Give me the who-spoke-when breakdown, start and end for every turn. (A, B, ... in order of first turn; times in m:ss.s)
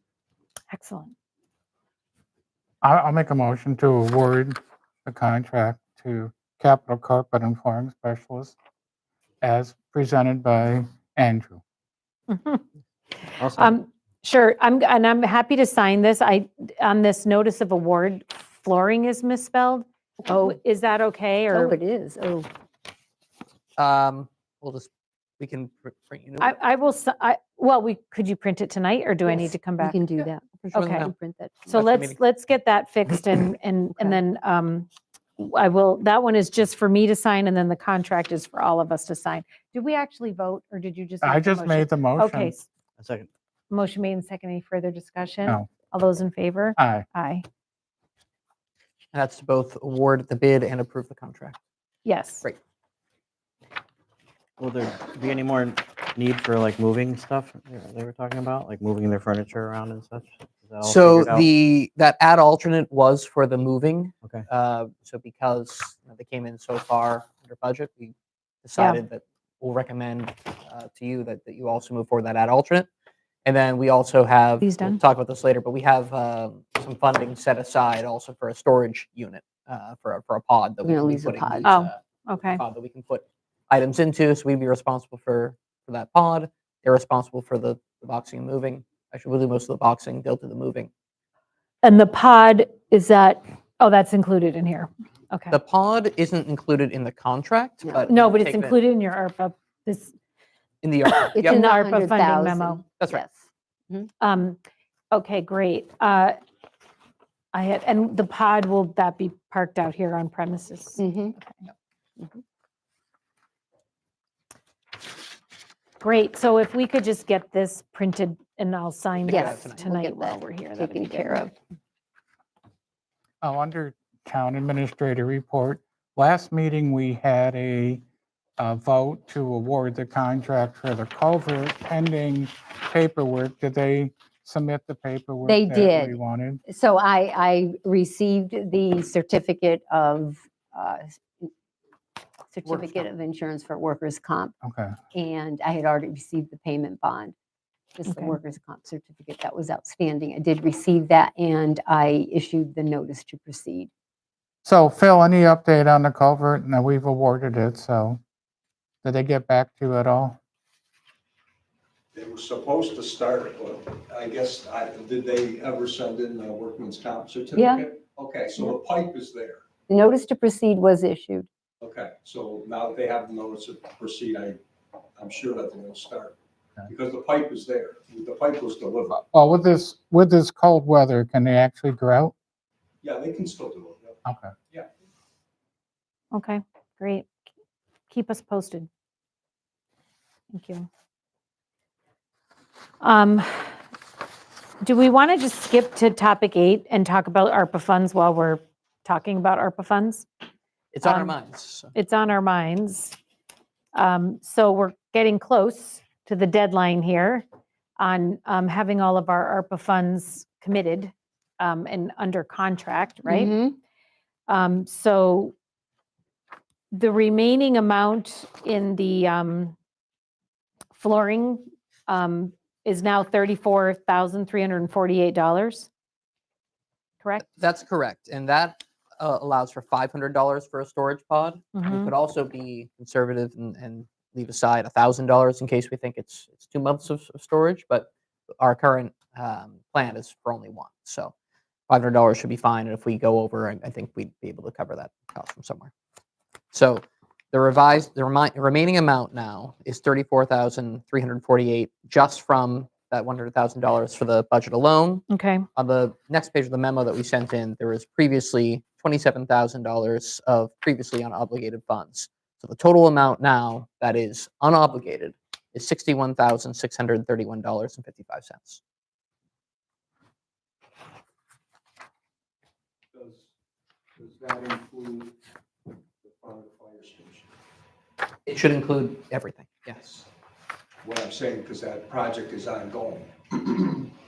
0:00.7-0:01.1 A
0:02.8-0:08.6 B
0:09.4-0:11.6 B
0:12.3-0:12.6 A
0:13.4-0:13.8 C
0:13.6-0:21.8 A
0:21.5-0:22.5 D
0:23.8-0:26.5 E
0:26.4-0:30.0 A
0:29.3-0:31.8 D
0:30.7-0:31.1 A
0:30.8-0:31.1 E
0:31.7-0:42.7 A
0:31.7-0:32.2 E
0:41.2-0:42.5 B
0:43.0-0:43.3 C
0:43.7-0:47.4 A
0:46.8-0:47.1 B
0:49.1-0:51.6 E
0:52.0-0:52.4 A
0:54.6-1:01.5 C
1:00.8-1:12.9 E
1:13.4-1:30.9 E
1:14.6-1:15.0 A
1:20.8-1:21.8 D
1:21.6-1:22.6 A
1:31.8-1:35.6 A
1:35.5-1:38.8 E
1:38.1-1:40.1 A
1:40.8-1:41.6 E
1:41.1-1:42.8 A
1:41.3-1:44.1 D
1:44.2-1:44.6 A
1:45.1-1:46.4 A
1:47.5-1:51.6 A
1:51.0-1:51.4 D
1:56.0-2:01.5 A
1:59.2-1:59.9 E
1:59.3-2:01.5 D
2:03.4-2:08.0 B
2:08.6-2:16.6 B
2:15.4-2:21.5 D
2:22.5-2:24.5 D
2:22.7-2:23.1 E
2:24.6-2:25.0 B
2:25.1-2:27.3 D
2:28.0-2:33.9 D
2:28.1-2:28.3 A
2:34.6-2:38.2 B
2:39.0-2:40.4 B
2:42.1-2:49.6 F
2:47.6-2:47.9 D
2:49.9-2:51.5 D
2:51.8-2:54.6 F
2:55.2-2:56.4 F
2:56.9-2:59.2 F
2:59.1-3:02.4 B
3:03.0-3:04.2 F
3:04.2-3:04.6 B
3:06.3-3:07.3 A
3:08.1-3:08.9 A
3:10.5-3:10.9 A
3:13.0-3:13.7 A
3:14.8-3:20.3 A
3:20.9-3:21.9 E
3:21.0-3:21.4 A
3:21.9-3:23.2 A
3:23.9-3:27.4 A
3:28.0-3:33.5 A
3:33.3-3:33.8 D
3:34.5-3:35.5 A
3:36.9-3:39.8 A
3:41.0-3:45.9 A
3:47.2-3:47.5 A
3:47.4-3:58.1 E
3:51.8-3:52.1 A
3:58.6-4:01.3 E
4:01.9-4:05.9 E
4:06.7-4:15.2 E
4:15.3-4:15.7 A
4:15.8-4:28.8 E
4:33.1-4:33.5 F
4:34.2-4:35.3 F
4:36.2-4:37.5 F
4:38.5-4:40.2 E
4:41.0-4:44.0 F